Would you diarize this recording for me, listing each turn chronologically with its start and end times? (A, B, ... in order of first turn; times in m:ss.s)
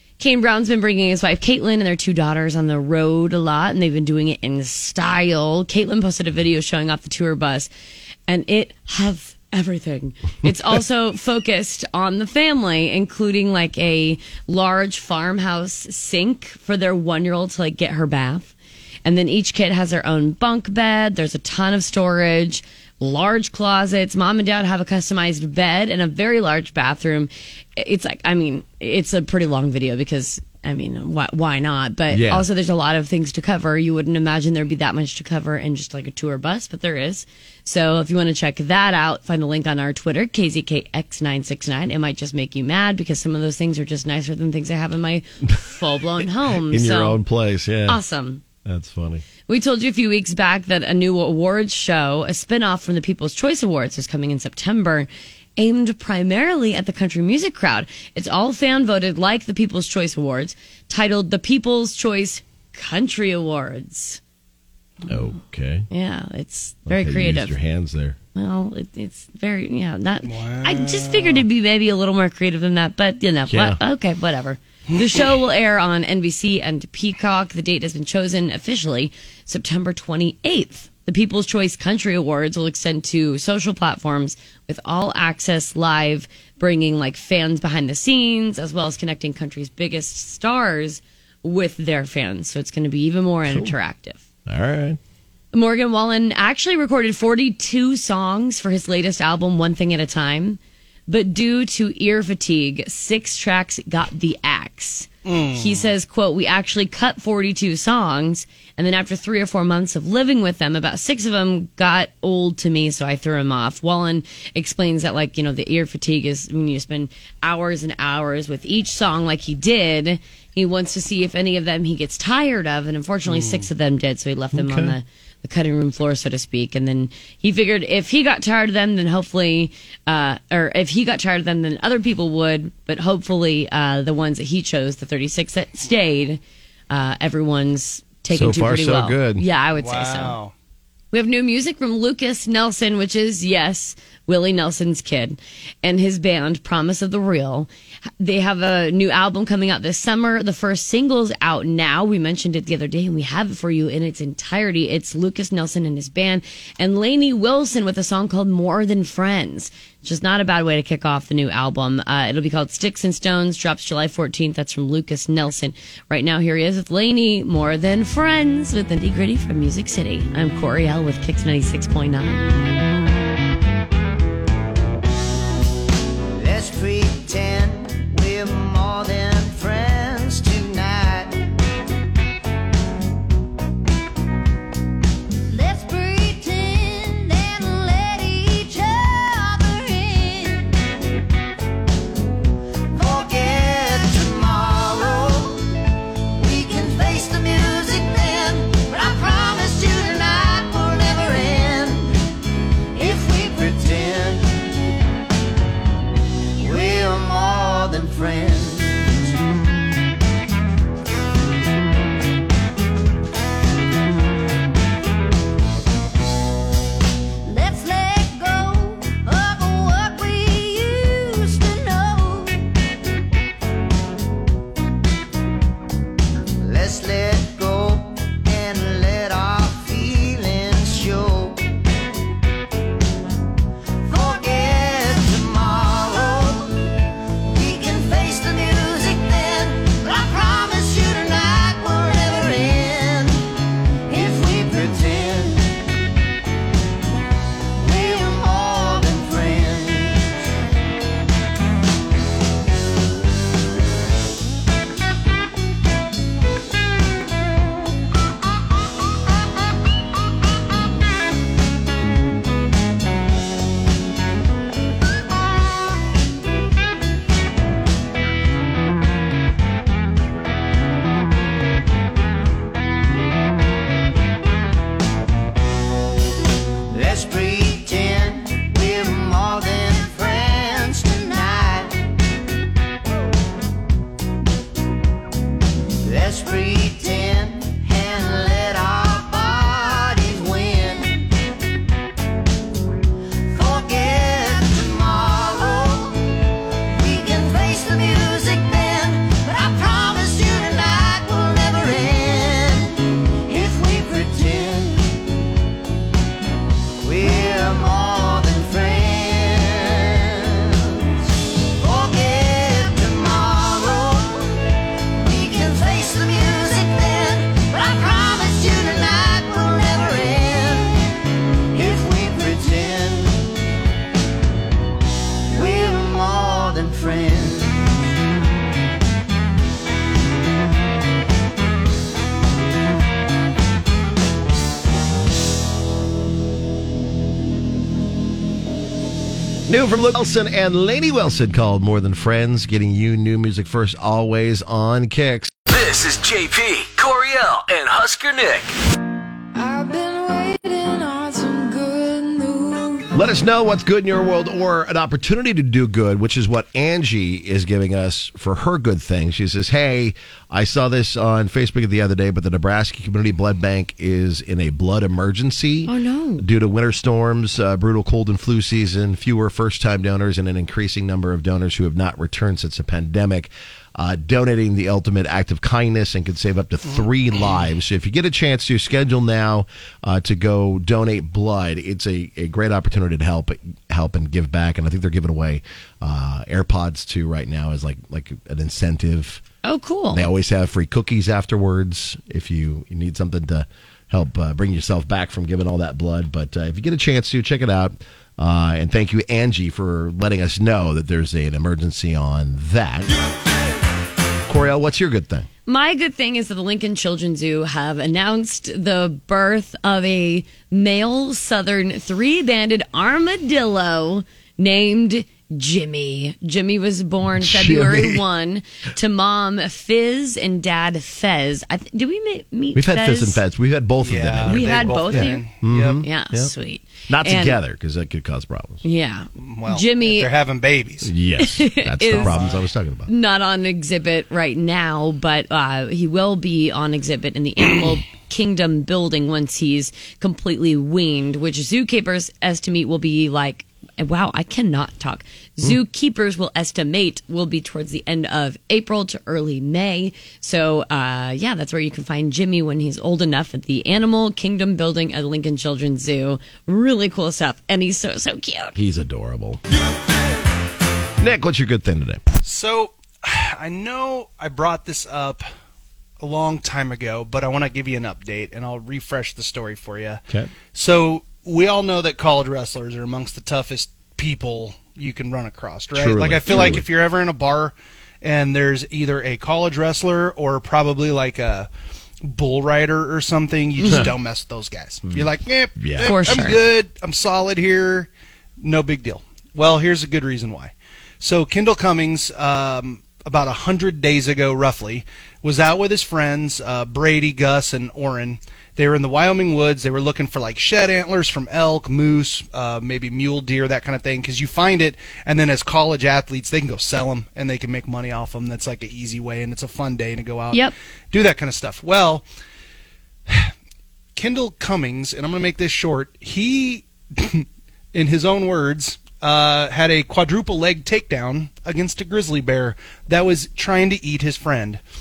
0:00.2-0:07.7 A
0:08.3-0:18.5 A
0:19.0-0:47.2 A
0:32.1-0:32.5 B
0:46.2-0:48.0 B
0:47.9-0:48.4 A
0:48.6-0:49.2 B
0:49.5-1:04.2 A
1:05.1-1:05.9 B
1:05.9-1:07.6 A
1:06.9-1:08.2 B
1:08.4-1:34.2 A
1:10.2-1:11.4 C
1:13.5-1:13.8 B
1:14.9-1:15.2 C
1:33.5-1:33.8 B
1:34.5-1:35.0 B
1:35.5-2:20.4 A
1:45.2-1:45.9 C
2:03.3-2:03.7 C
2:04.5-2:05.0 B
2:18.3-2:19.4 B
2:19.8-2:20.5 C
2:21.1-2:52.4 A
2:56.3-3:01.4 D
3:05.5-3:10.8 D
3:12.9-3:15.6 D
3:16.4-3:22.2 D
3:22.9-3:24.6 D
3:26.6-3:29.3 D
3:37.4-3:42.6 D
3:46.6-3:51.6 D
3:54.0-3:56.8 D
3:57.5-4:03.5 D
4:04.1-4:05.7 D
4:07.8-4:10.3 D
4:36.9-4:42.0 D
4:46.0-4:51.3 D
4:53.5-4:56.3 D
4:56.9-5:05.2 D
5:07.0-5:11.2 D
5:11.8-5:14.6 D
5:15.2-5:21.0 D
5:21.7-5:23.5 D
5:25.5-5:27.9 D
5:39.7-5:45.5 B
5:45.7-5:48.7 E
5:49.6-5:53.1 F
5:53.1-6:29.4 B
6:05.9-6:06.4 A
6:29.6-6:30.3 A
6:30.1-6:43.1 B
6:44.5-6:45.5 B
6:45.7-7:03.4 A
6:57.4-6:58.2 B
7:02.8-7:06.5 B
7:04.0-7:06.0 C
7:04.5-7:05.4 A
7:06.0-7:07.6 A
7:07.1-7:08.8 B
7:08.8-7:10.3 A
7:09.4-7:11.1 C
7:11.0-7:13.1 B
7:11.4-7:12.5 A
7:12.1-7:12.6 C
7:13.1-7:38.8 A
7:38.8-7:39.6 B
7:41.2-7:42.2 B
7:42.4-7:45.4 C
7:46.2-7:50.2 C
7:50.7-8:01.7 C
7:55.9-7:56.9 B
8:02.2-8:08.1 C
8:05.8-8:06.5 B
8:06.0-8:06.6 A
8:08.6-8:32.2 C
8:34.2-8:44.8 C